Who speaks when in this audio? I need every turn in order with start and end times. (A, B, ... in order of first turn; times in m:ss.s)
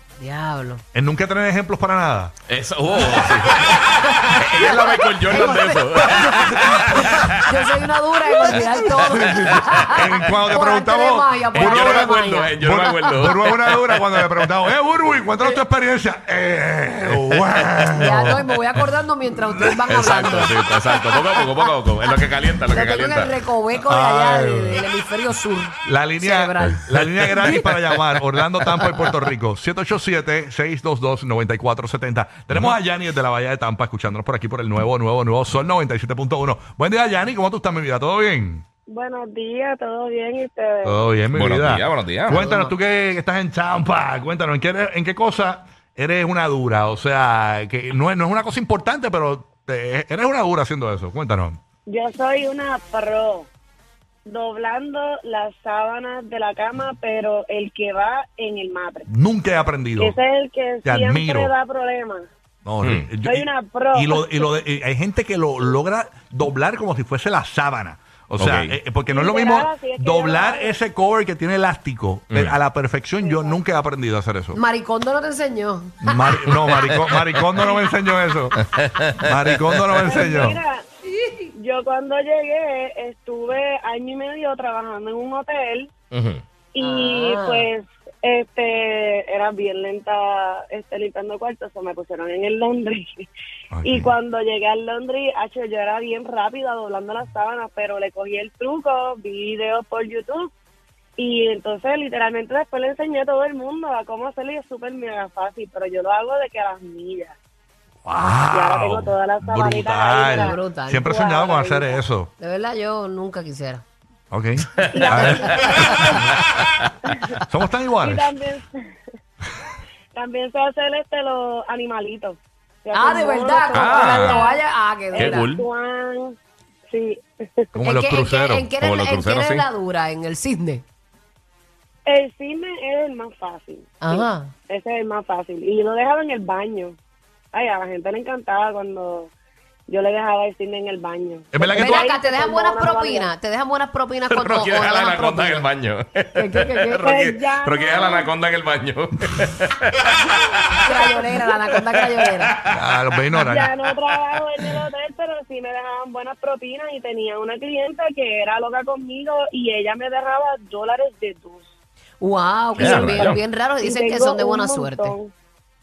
0:00.2-0:00.8 A
0:00.9-0:02.3 B
0:02.5-0:07.7 C
0:03.2-0:03.5 B
0:03.8-0:13.1 A
0:06.0-0:07.4 B
0:08.4-0:18.5 B
0:08.4-0:10.0 C
0:11.5-0:14.4 C
0:17.9-0:20.7 A
0:19.5-0:19.9 B
0:19.9-0:23.4 C
0:22.7-0:27.7 A
0:23.8-0:24.9 B
0:25.8-0:38.6 B
0:38.9-0:41.0 D
0:40.8-0:51.6 B
0:41.3-0:42.4 C
0:42.3-0:42.7 A
0:51.9-0:53.5 D
0:54.2-0:59.1 D
0:59.1-1:00.1 B
1:00.0-1:02.2 D
1:00.8-1:01.5 B
1:02.6-1:14.6 B
1:02.8-1:03.1 C
1:03.2-1:04.5 D
1:08.4-1:08.8 C
1:09.0-1:10.7 D
1:12.3-1:12.6 C
1:13.2-1:13.6 D
1:14.5-1:16.5 A
1:16.0-1:20.6 B
1:20.0-1:20.8 D
1:21.5-1:25.9 D
1:26.1-1:26.4 C
1:26.7-1:33.3 D
1:26.8-1:27.7 A
1:33.7-1:34.1 B
1:33.8-1:40.5 D
1:41.2-1:47.3 D
1:48.0-1:52.3 B
1:48.5-1:50.5 D
1:50.2-1:51.5 A
1:51.1-1:52.0 D
1:52.4-1:53.8 A
1:54.3-1:56.0 B
1:54.8-1:55.8 C
1:54.9-1:56.3 D
1:57.1-1:57.4 D
1:57.4-1:58.3 B
1:58.0-1:58.8 D
2:00.1-2:06.4 D
2:02.9-2:05.5 A
2:03.7-2:04.4 C
2:05.2-2:05.6 C
2:06.9-2:07.7 D
2:07.7-2:08.7 B
2:07.8-2:10.8 A
2:08.8-2:09.6 C
2:12.0-2:17.0 D
2:14.0-2:14.5 A
2:17.5-2:19.3 D
2:19.9-2:23.3 D
2:21.5-2:22.0 B
2:21.8-2:25.7 A
2:24.3-2:30.2 C
2:26.3-2:27.1 A
2:27.0-2:28.3 D
2:30.2-2:31.8 D
2:30.8-2:32.5 A
2:32.7-2:33.7 B
2:33.3-2:41.7 D
2:42.2-2:45.2 A
2:42.8-2:43.4 C
2:42.8-2:45.3 D